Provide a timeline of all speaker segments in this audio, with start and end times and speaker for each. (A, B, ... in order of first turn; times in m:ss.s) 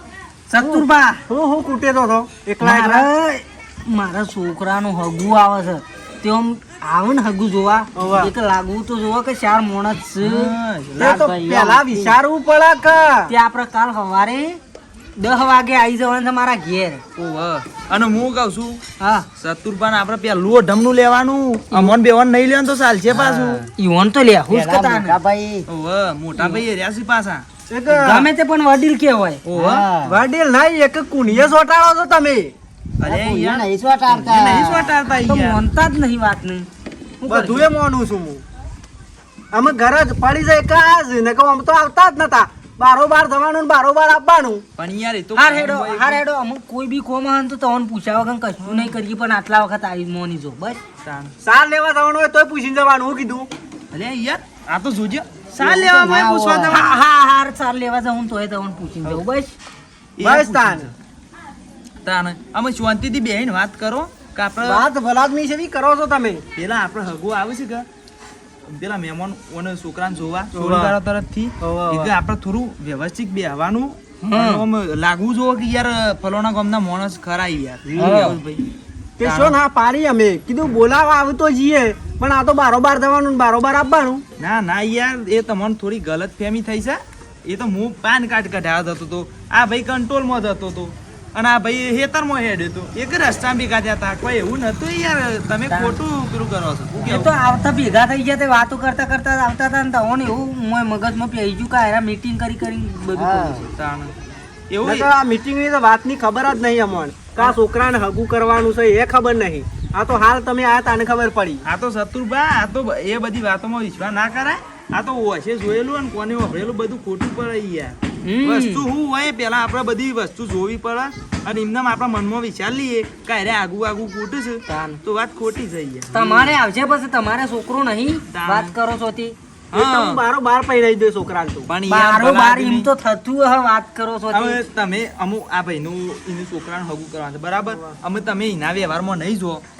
0:00.5-0:01.2 A
0:00.6-0:03.1 B
0:02.6-0:12.1 A
0:07.9-0:08.3 B
0:10.2-0:11.3 C
0:11.0-0:13.3 B
0:11.1-0:11.7 D
0:13.3-0:14.6 A
0:15.2-0:17.0 A
0:17.2-0:18.8 C
0:19.0-0:19.3 A
0:19.4-0:23.7 C
0:23.1-0:23.7 D
0:23.8-0:25.2 A
0:24.5-0:25.6 D
0:25.7-0:27.4 C
0:26.4-0:26.6 A
0:27.7-0:28.3 B
0:27.9-0:29.4 A
0:29.4-0:29.9 C
0:29.5-0:30.2 D
0:30.0-0:32.5 B
0:33.0-0:35.6 C
0:33.0-0:34.9 D
0:35.1-0:36.7 A
0:37.2-0:37.7 A
0:37.3-0:38.4 B
0:39.5-0:44.6 B
0:44.8-0:46.2 C
0:45.4-0:50.8 A
0:48.6-0:49.0 C
0:51.0-0:51.3 C
0:51.4-0:53.5 B
0:53.9-0:57.0 C
0:55.9-0:56.8 D
0:56.6-0:59.5 A
1:00.2-1:00.9 C
1:00.2-1:00.9 B
1:02.0-1:04.8 C
1:04.6-1:06.4 B
1:06.6-1:07.8 C
1:08.7-1:18.6 C
1:10.5-1:11.0 B
1:11.6-1:12.1 B
1:14.2-1:14.6 A
1:18.0-1:18.4 A
1:18.0-1:18.3 B
1:19.2-1:24.2 B
1:19.2-1:19.6 C
1:24.4-1:37.3 C
1:35.7-1:36.0 A
1:37.0-1:43.7 A
1:43.1-1:43.6 D
1:43.7-1:44.1 C
1:44.7-1:45.1 C
1:44.8-1:51.6 B
1:51.6-2:06.6 C
1:58.2-1:58.8 A
2:04.7-2:05.0 A
2:06.1-2:09.3 A
2:08.3-2:08.7 C
2:09.7-2:10.2 C
2:09.7-2:11.7 B
2:11.6-2:12.9 C
2:11.9-2:14.6 A
2:14.3-2:19.6 C
2:17.7-2:18.0 B